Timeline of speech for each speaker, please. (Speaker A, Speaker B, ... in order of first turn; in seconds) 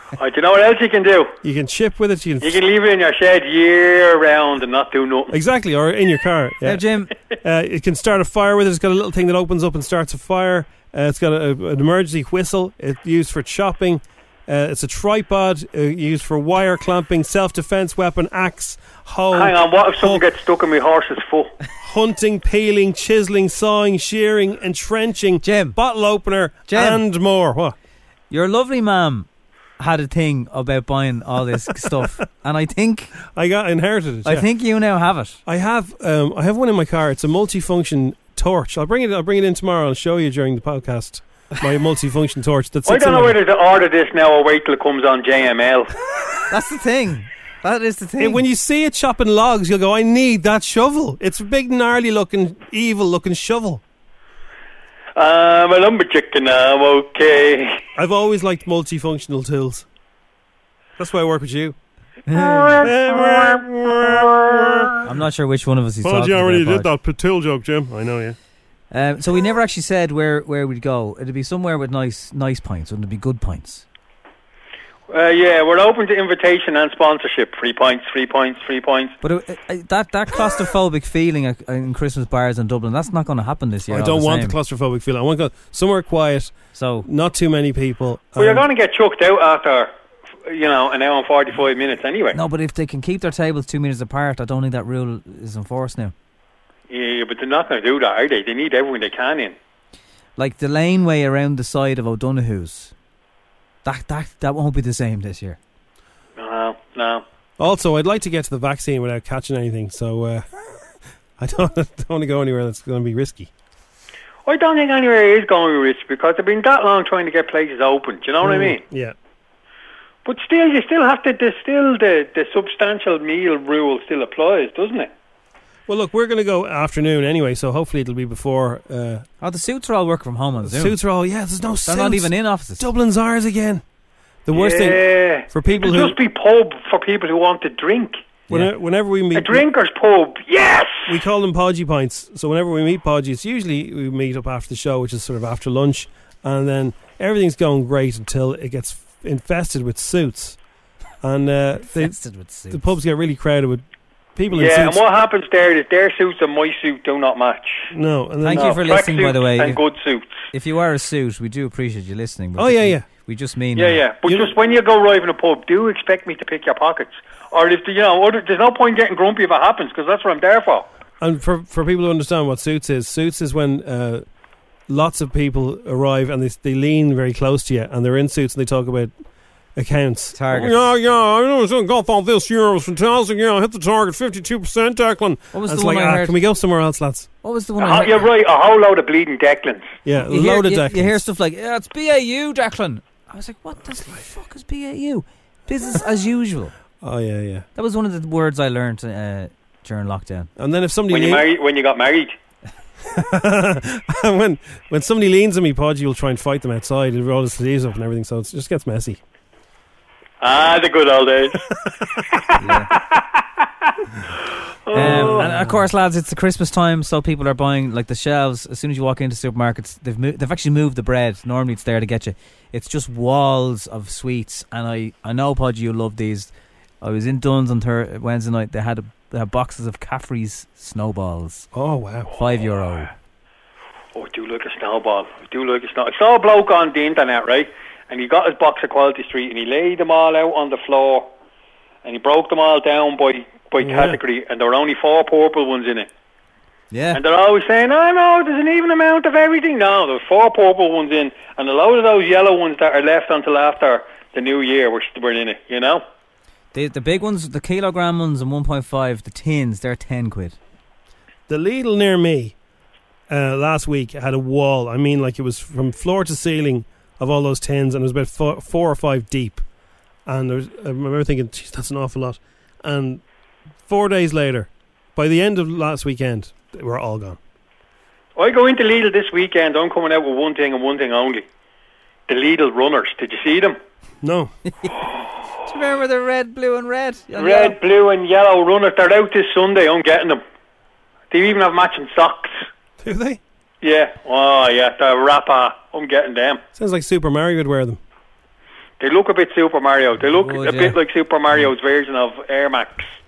Speaker A: 0.2-1.3, 2.4-5.3, 19.3-21.5, 42.9-45.9, 55.2-57.8, 75.1-79.1, 88.4-89.9, 90.5-92.4, 96.9-99.6, 106.4-107.2, 114.5-118.8, 120.2-125.1, 134.5-138.3, 139.3-141.1, 154.5-157.9, 158.5-160.3, 163.8-170.9, 187.8-189.9, 201.1-202.3, 210.4-211.6, 214.9-215.5, 234.2-241.3, 242.0-246.1, 247.1-256.0, 278.4-281.4, 282.3-283.8, 287.4-290.4, 291.3-292.5, 293.8-296.6, 299.0-303.1
Speaker B: 1.4-2.6, 5.3-6.8, 7.4-20.2, 21.8-27.8, 33.3-34.5, 35.5-43.4, 48.2-53.8, 58.0-59.9, 61.0-61.8, 62.7-65.0, 66.0-68.4, 83.9-88.7, 107.6-110.5, 111.4-113.5, 118.4-119.1, 125.9-129.2, 130.6-133.8, 134.5-136.2, 138.5-139.6, 141.1-150.6, 151.2-152.1, 152.7-153.8, 154.4-155.0, 157.9-158.8, 162.6-163.1, 164.2-164.5, 171.2-174.2, 174.9-179.2, 179.8-187.3, 190.1-191.2, 197.0-197.7, 200.6-201.5, 203.1-209.2, 214.9-215.8, 231.7-232.3, 243.8-244.2, 261.5-262.6, 263.3-269.6, 270.3-273.2, 273.9-277.4, 284.2-284.5, 293.0-293.4, 296.8-298.0
Speaker C: 6.6-7.1, 25.4-25.8, 26.7-27.0, 28.3-29.3, 29.8-33.2, 34.2-35.4, 46.5-48.5, 62.3-62.9, 65.0-66.9, 68.9-73.9, 79.2-84.6, 86.7-87.1, 92.3-96.1, 100.4-102.9, 103.8-105.6, 129.4-131.0, 131.8-132.9, 151.9-152.8, 158.4-159.8, 160.5-164.0, 180.3-180.9, 185.5-186.4, 187.4-188.3, 190.3-196.7, 197.8-200.5, 212.6-212.9, 214.9-231.7, 232.3-233.1, 246.9-247.2, 256.7-260.6, 285.7-287.8, 300.3-301.0